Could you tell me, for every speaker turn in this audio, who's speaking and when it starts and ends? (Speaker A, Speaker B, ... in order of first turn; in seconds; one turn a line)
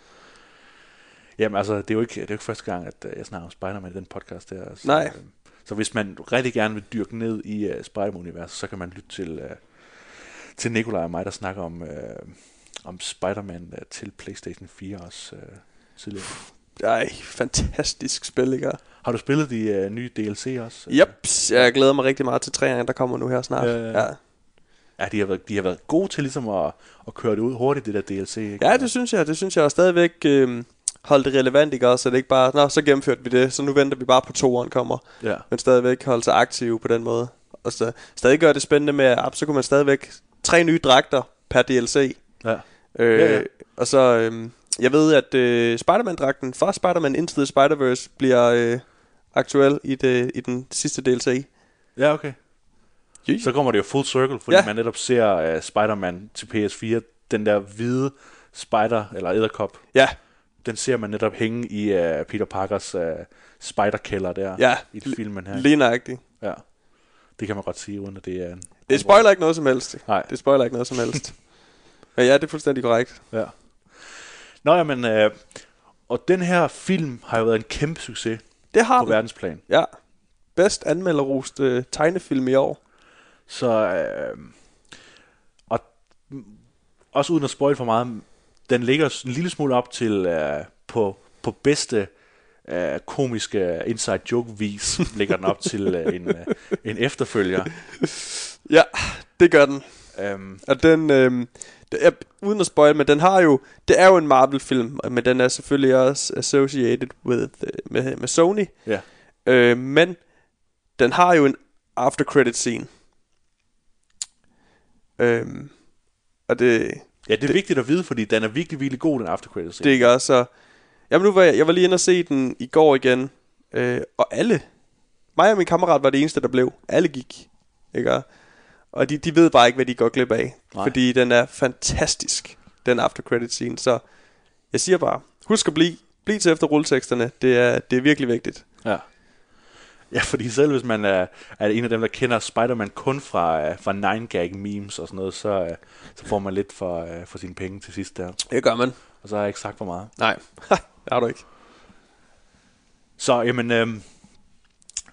Speaker A: 1.4-16.3
Speaker B: 4.8-5.2
Speaker B: 16.2-18.8
Speaker A: 19.0-21.7
Speaker B: 20.9-24.2
Speaker A: 23.6-24.1
Speaker A: 25.0-28.9
Speaker B: 28.6-42.2
Speaker A: 42.4-43.5
Speaker B: 42.9-51.5
Speaker A: 52.0-52.4
Speaker A: 53.4-59.8
Speaker A: 60.6-65.7
Speaker B: 64.6-66.2
Speaker A: 67.4-69.3
Speaker B: 68.9-71.5
Speaker A: 70.0-70.3
Speaker B: 72.2-73.2
Speaker A: 74.6-78.4
Speaker B: 78.7-79.9
Speaker A: 79.0-79.6
Speaker B: 80.5-82.8
Speaker A: 83.5-84.5
Speaker A: 85.7-86.6
Speaker A: 87.1-92.1
Speaker A: 92.7-97.7
Speaker B: 98.7-100.1
Speaker A: 100.1-100.6
Speaker B: 100.6-108.7
Speaker B: 109.5-110.2
Speaker B: 111.0-112.9
Speaker B: 115.2-115.8
Speaker B: 116.5-117.5
Speaker A: 117.3-120.1
Speaker B: 119.8-120.5
Speaker B: 121.1-124.7
Speaker B: 125.3-128.3
Speaker B: 128.8-134.0
Speaker B: 134.7-138.7
Speaker A: 140.1-148.4
Speaker B: 148.5-149.0
Speaker A: 149.2-150.1
Speaker B: 150.2-151.4
Speaker A: 153.2-154.1